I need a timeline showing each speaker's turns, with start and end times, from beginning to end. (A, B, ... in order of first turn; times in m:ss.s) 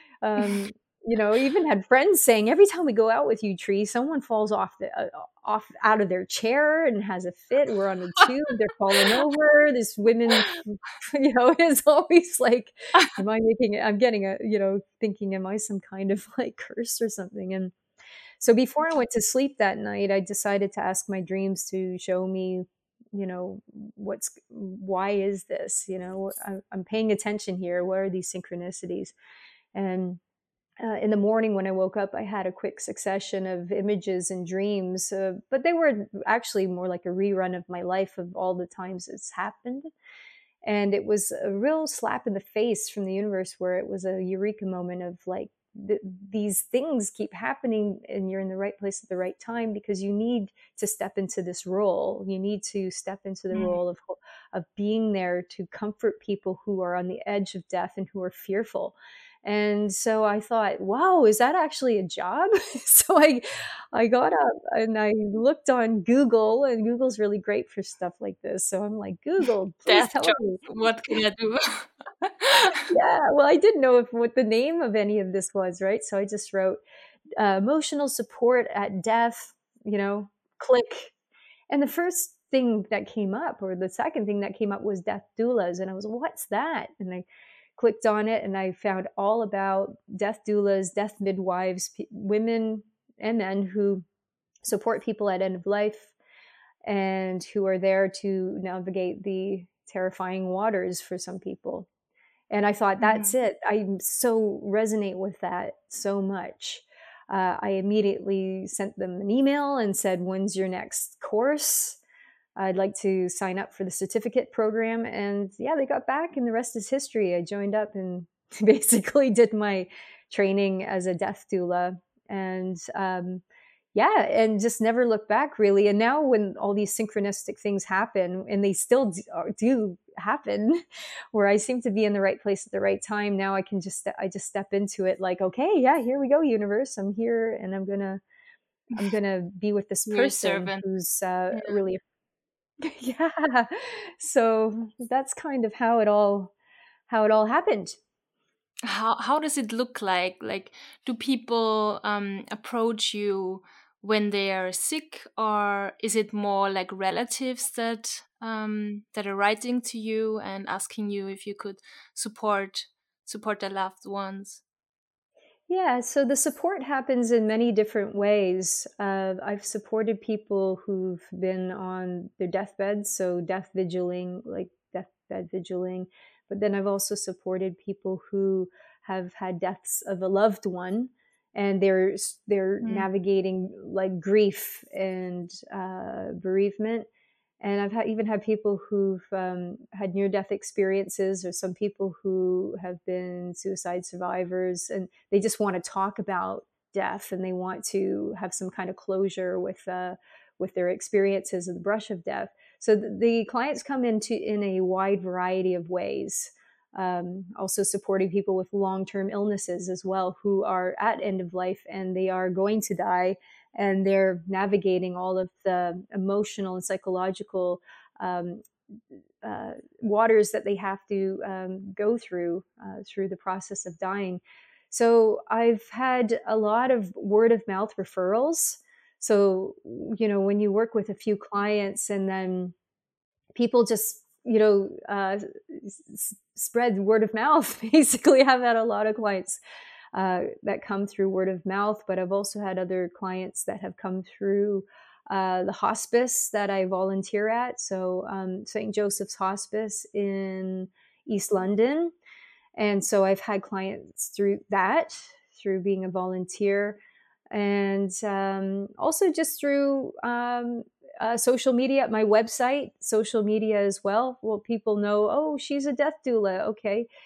0:00.2-0:17.7 A
0:18.4-0:29.1 A
0:29.7-0:30.2 A
0:30.8-0:39.9 A
0:40.6-1:11.2 A
0:53.5-0:53.8 B
1:09.9-1:12.9 B
1:12.9-1:16.8 A
1:17.4-1:21.1 A
1:21.7-1:27.3 A
1:27.8-1:34.0 A
1:34.6-1:36.1 A
1:36.9-1:41.9 A
1:42.5-1:52.0 A
1:43.0-1:43.4 B
1:52.6-2:03.4 A
2:04.0-2:10.8 A
2:11.3-2:18.2 A
2:19.0-2:22.0 A
2:20.1-2:20.8 B
2:21.5-2:21.8 B
2:22.8-2:26.5 A
2:27.1-2:28.0 A
2:28.8-2:44.6 B
2:45.7-3:07.1 A
3:02.8-3:03.1 B
3:07.6-3:38.6 A
3:39.4-3:52.7 A
3:53.6-3:59.6 A
4:00.1-4:12.1 A
4:12.8-4:17.0 A
4:17.5-4:27.1 A